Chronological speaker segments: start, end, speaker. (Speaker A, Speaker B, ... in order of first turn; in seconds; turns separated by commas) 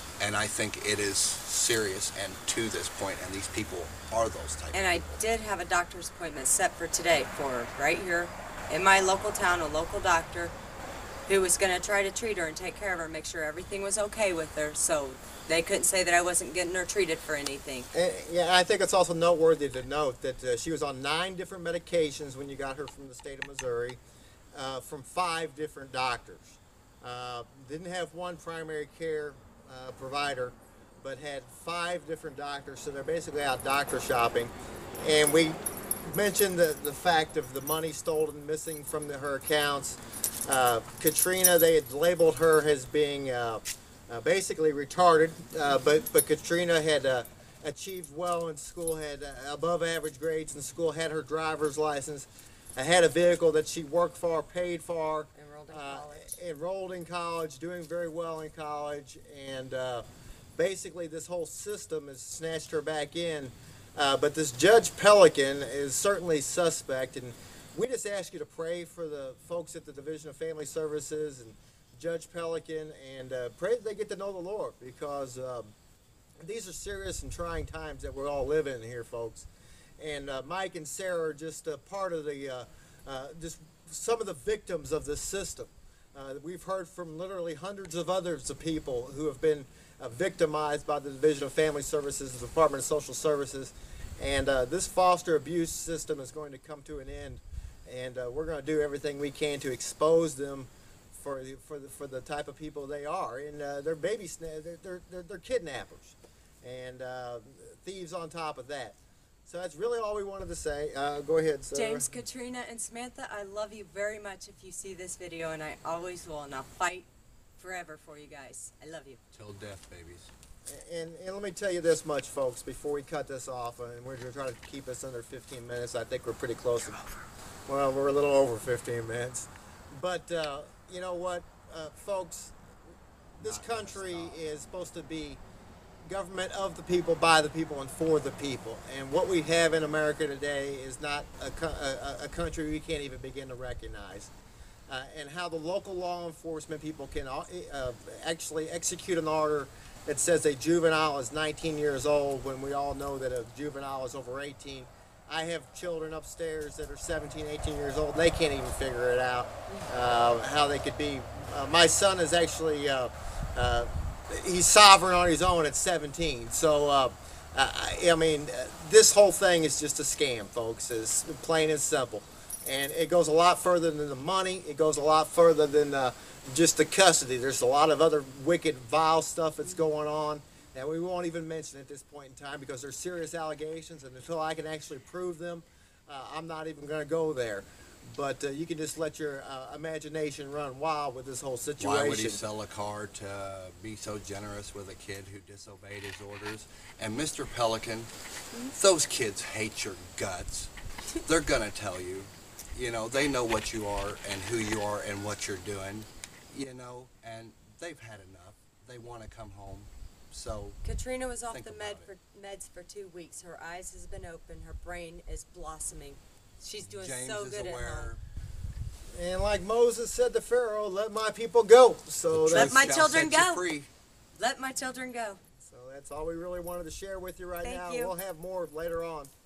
Speaker A: 0.2-5.2, Speaker B: 4.7-10.6, Speaker B: 11.3-17.9, Speaker C: 17.9-24.0, Speaker C: 24.5-60.0, Speaker B: 55.3-56.4, Speaker C: 60.6-75.7, Speaker C: 76.4-79.5, Speaker C: 80.0-112.1, Speaker B: 111.7-119.2, Speaker A: 119.3-120.3, Speaker C: 120.7-127.0, Speaker C: 127.7-132.6, Speaker A: 133.4-134.4, Speaker C: 133.4-135.4, Speaker C: 136.1-144.3, Speaker C: 144.9-192.4, Speaker A: 191.8-198.1, Speaker A: 198.7-200.7, Speaker A: 201.2-210.8, Speaker B: 210.8-218.2, Speaker A: 211.5-212.1, Speaker A: 216.8-218.2, Speaker C: 219.1-222.9, Speaker A: 222.3-223.9, Speaker B: 222.5-223.7, Speaker B: 224.4-225.4, Speaker C: 225.7-229.3, Speaker B: 227.6-228.2